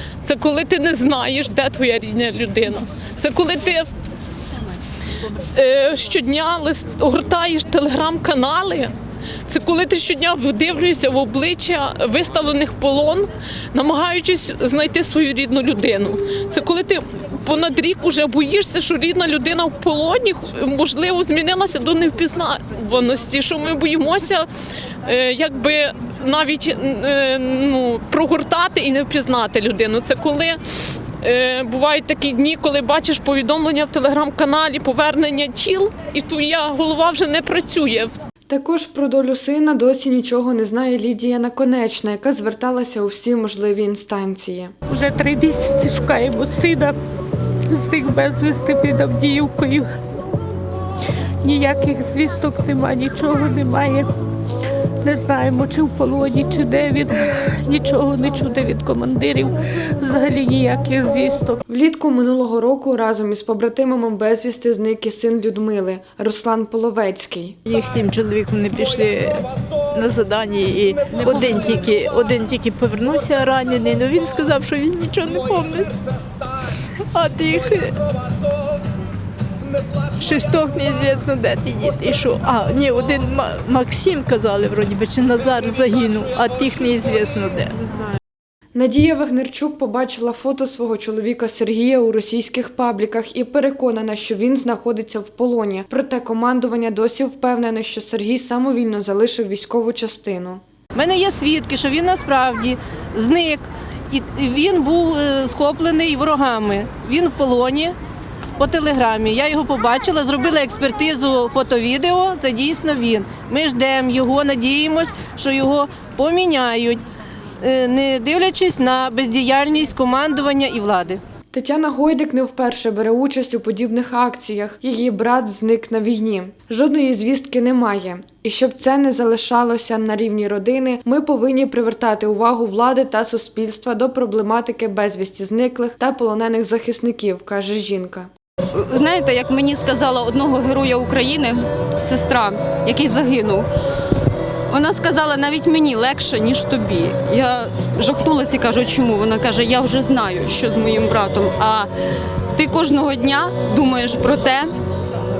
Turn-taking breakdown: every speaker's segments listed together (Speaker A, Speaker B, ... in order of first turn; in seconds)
Speaker A: 0.2-3.9, 5.5-8.9, 9.4-24.4, 25.0-30.6, 31.2-38.1
Speaker B: 38.5-44.7, 61.7-67.6, 88.7-100.6, 121.5-138.3
Speaker C: 44.9-47.0, 47.7-49.9, 51.4-54.1, 55.0-61.6, 71.1-71.9
Speaker D: 67.7-76.0, 77.1-78.0, 80.2-87.9
Speaker E: 100.9-108.0, 108.5-117.0, 117.6-121.2
Speaker F: 138.7-143.7, 144.7-151.9, 152.5-154.7